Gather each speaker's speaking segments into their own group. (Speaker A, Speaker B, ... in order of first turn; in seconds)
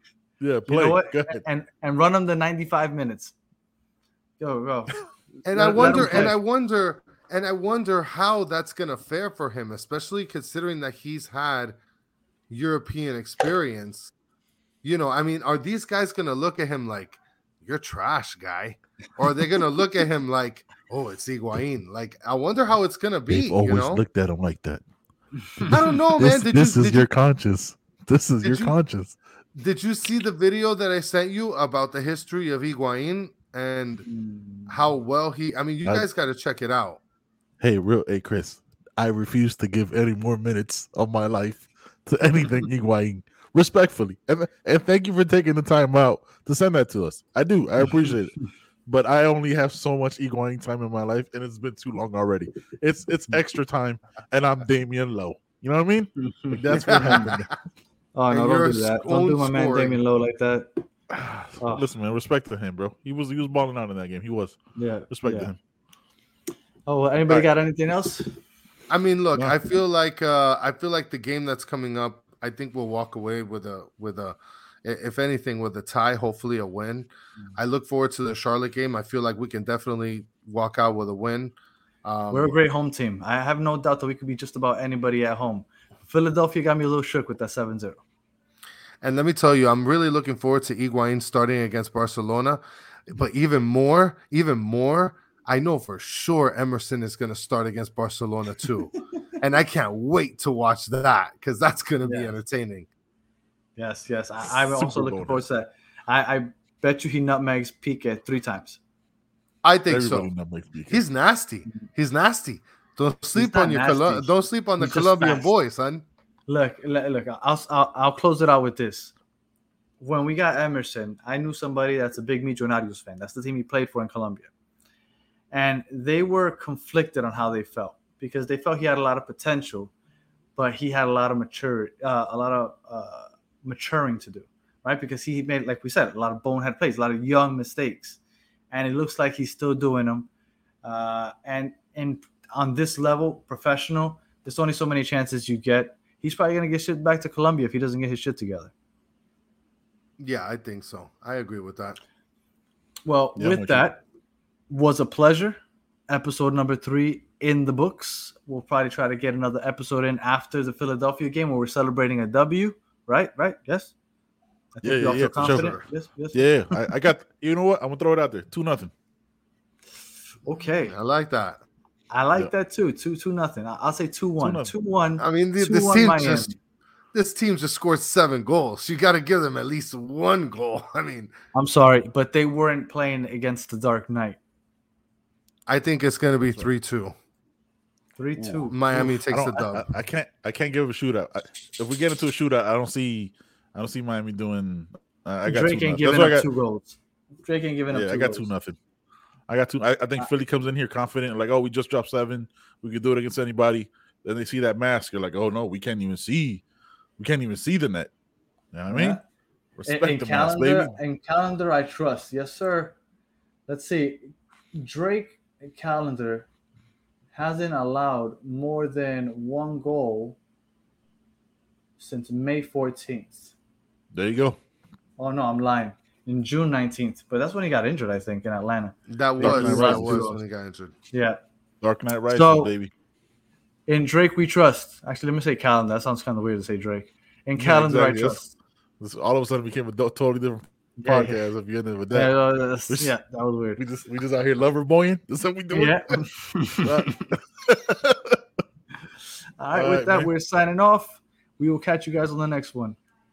Speaker A: 0.4-1.4, 5.7-6.3, 23.3-24.8, 25.6-29.2, 37.6-57.5, 61.1-64.6, 65.1-65.6, 104.4-105.4, 109.9-111.0, 153.4-153.8, 164.8-165.8, 166.3-168.9, 174.4-174.7, 188.9-196.4, 197.9-198.8, 199.5-206.6, 207.2-208.1, 208.7-209.2, 209.8-210.9, 224.1-224.6, 229.4-230.2, 231.8-232.9, 237.6-238.4, 239.0-242.3, 243.8-248.4, 249.7-250.3
Speaker B: 0.7-3.3, 4.4-5.0, 5.5-6.3, 34.0-34.8, 56.2-57.3, 58.1-60.9, 61.6-61.9, 64.8-65.5, 66.9-68.4, 82.3-88.0, 102.0-102.3, 103.8-108.8, 113.3-115.5, 116.5-119.1, 120.0-124.5, 125.5-129.9, 130.6-138.2, 138.7-140.3, 140.8-148.7, 153.0-154.0, 154.7-163.9, 164.7-166.8, 170.4-170.9, 172.1-176.6, 181.5-184.4, 188.2-188.8, 195.4-198.5, 208.9-209.2, 209.9-212.9, 213.7-216.5, 217.3-220.4, 222.0-223.5, 225.2-230.4, 231.1-231.4, 232.3-232.7, 233.9-238.5, 241.0-241.4, 242.1-243.8, 245.7-247.1, 249.6-253.0
Speaker C: 5.4-11.8, 12.5-14.1, 14.8-24.0, 25.7-27.1, 28.4-28.7, 29.6-34.0, 34.7-37.0, 56.9-57.4, 58.3-60.0, 68.9-82.6, 89.0-102.9, 109.6-110.3, 110.9-116.0, 150.2-152.0, 170.9-171.6, 175.2-176.5, 177.1-181.3, 185.7-187.1, 188.7-189.9, 229.1-230.9